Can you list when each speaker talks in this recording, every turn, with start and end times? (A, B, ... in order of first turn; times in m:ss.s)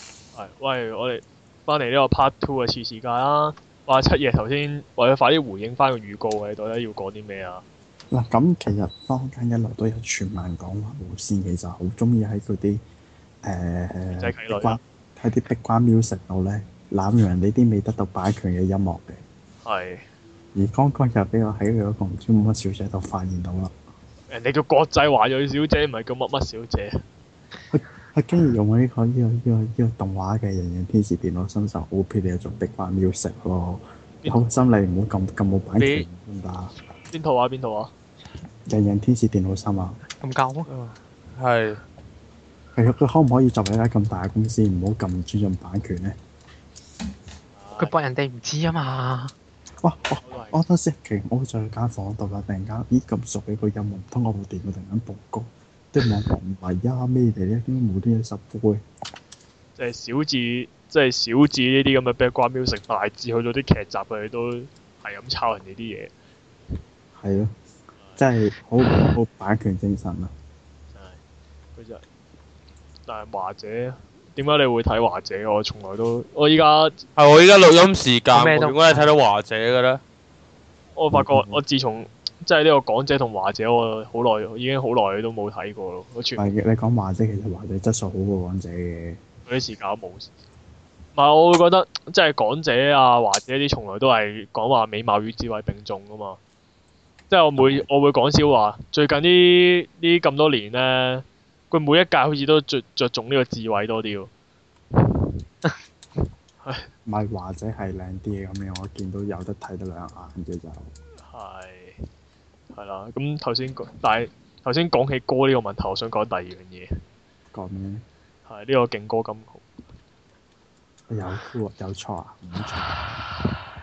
0:00.3-0:07.6 A
0:08.1-0:12.8 B
0:13.4-0:19.2 B
0:14.1-0:14.8 A
0:19.6-0:20.0 A
0:20.6-0:23.7 B
0:24.3-0:26.9 A
0:27.7-0:36.7 B
0:35.8-0:36.0 C
0:37.1-0:37.9 A
0:38.7-0:40.0 B
0:40.2-0:40.7 D
0:40.7-0:41.8 C
0:42.8-0:46.2 B
0:47.5-0:47.9 A
0:47.8-0:49.3 D
0:49.8-0:58.8 B
0:50.2-0:50.6 A
0:59.8-1:06.1 A
1:07.1-1:07.5 B
1:08.2-1:10.3 B
1:10.9-1:11.2 A
1:11.8-1:12.0 A
1:13.1-1:17.0 A
1:17.2-1:20.0 C
1:18.3-1:19.1 D
1:21.0-1:26.4 A
1:21.1-1:21.6 B
1:26.4-1:29.2 B
1:29.5-1:30.3 A
1:31.1-1:36.4 A
1:37.3-1:44.3 A
1:37.6-1:37.8 B
1:46.6-1:46.9 A
1:47.1-1:50.9 B
1:51.2-1:52.0 A
1:52.7-1:56.9 A
1:57.5-1:58.0 B
1:58.4-1:59.7 A
2:01.1-2:02.9 B